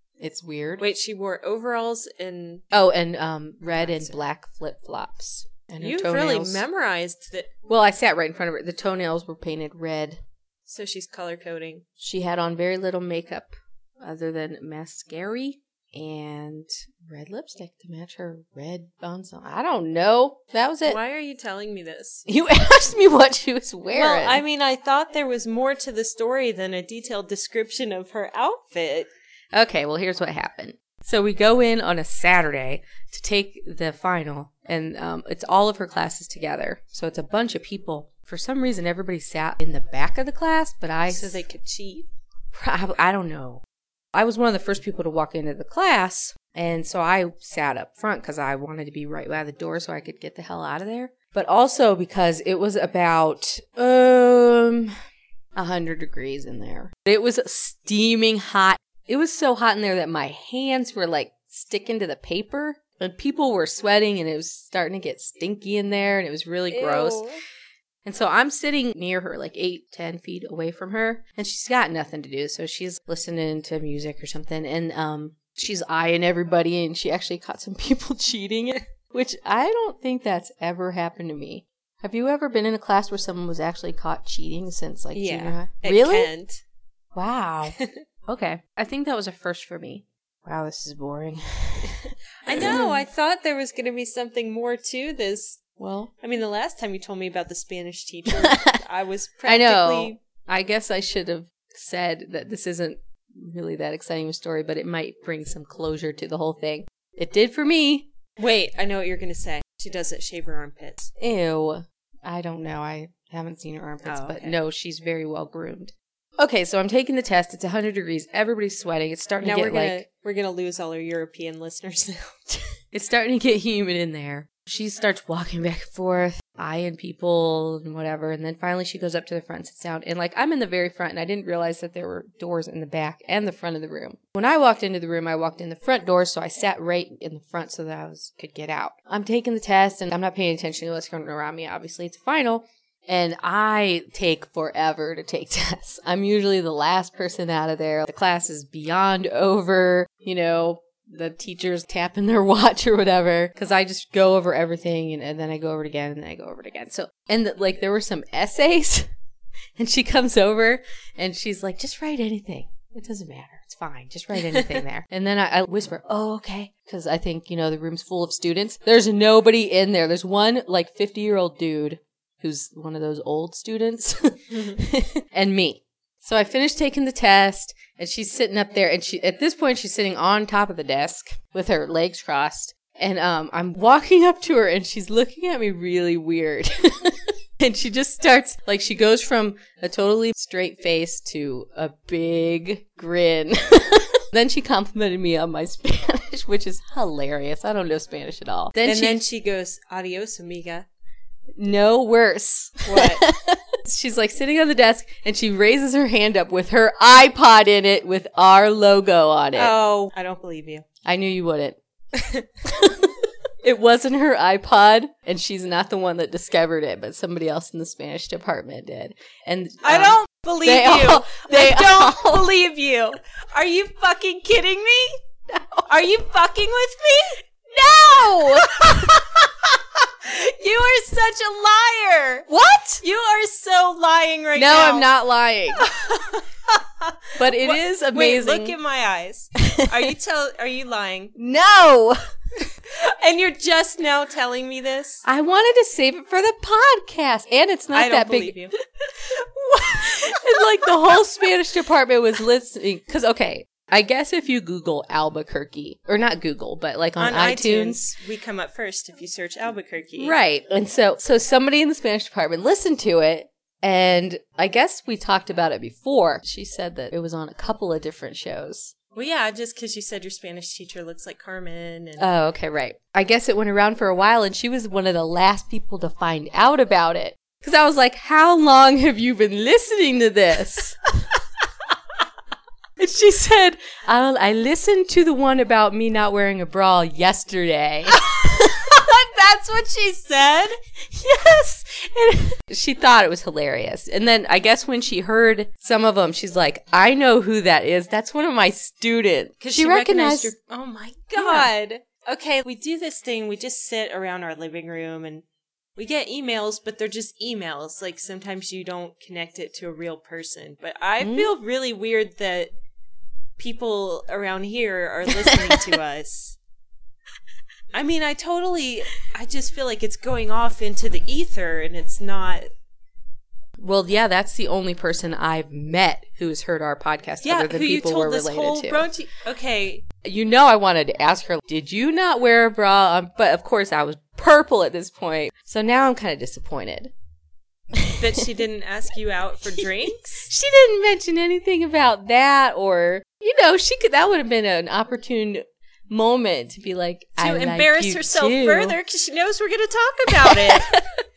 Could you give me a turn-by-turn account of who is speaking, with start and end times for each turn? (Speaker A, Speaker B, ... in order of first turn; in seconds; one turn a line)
Speaker A: 0.2-0.9
Speaker B: 0.8-2.6
Speaker A: 2.7-6.6
Speaker B: 3.8-4.2
Speaker B: 5.8-7.5
Speaker A: 7.7-10.2
Speaker B: 10.7-11.8
Speaker A: 12.0-21.0
Speaker B: 20.8-22.2
Speaker A: 22.3-24.4
Speaker B: 23.9-29.1
Speaker A: 29.5-41.4
Speaker B: 41.1-42.1
Speaker A: 42.5-43.6
Speaker A: 44.1-54.9
Speaker A: 55.5-67.2
Speaker B: 66.7-67.4
Speaker A: 68.0-86.3
Speaker B: 85.1-86.6
Speaker A: 87.1-93.0
Speaker B: 92.4-95.6
Speaker A: 95.8-96.1
Speaker B: 96.2-100.2
Speaker A: 98.3-98.8
Speaker A: 99.4-108.1
Speaker B: 108.4-111.1
Speaker A: 111.2-120.0
Speaker B: 114.0-114.5
Speaker B: 119.4-122.6
Speaker A: 122.9-159.1
Speaker A: 159.8-199.2
Speaker B: 164.5-164.8
Speaker B: 174.5-174.8
Speaker B: 198.8-200.9
Speaker A: 201.6-209.7
Speaker B: 202.8-203.2
Speaker B: 209.5-210.8
Speaker A: 211.0-211.8
Speaker B: 212.2-212.4
Speaker A: 212.6-222.4
Speaker B: 219.8-225.2
Speaker A: 225.5-225.9
Speaker B: 225.8-232.5
Speaker A: 227.9-229.1
Speaker A: 232.5-233.0
Speaker B: 233.0-235.1
Speaker A: 234.5-235.9
Speaker B: 235.7-241.3
Speaker A: 237.4-238.8
Speaker A: 239.6-240.1
Speaker A: 241.3-242.2
Speaker B: 242.9-245.2
Speaker A: 245.2-258.0
Speaker B: 247.9-248.8
Speaker B: 257.2-260.4
Speaker A: 260.2-268.9
Speaker B: 269.1-272.3
Speaker A: 272.2-281.0
Speaker A: 283.0-288.2
Speaker B: 288.1-290.8
Speaker A: 291.0-300.6
Speaker B: 299.6-305.4
Speaker A: 301.3-301.7
Speaker B: 305.9-312.7
Speaker A: 311.2-311.5
Speaker B: 313.6-316.6
Speaker A: 315.4-315.8
Speaker B: 317.9-322.7
Speaker A: 323.8-329.1
Speaker B: 327.4-330.1
Speaker A: 330.2-337.1
Speaker A: 337.9-338.4
Speaker B: 338.2-340.5
Speaker A: 339.8-349.0
Speaker B: 347.4-350.9
Speaker A: 350.3-351.0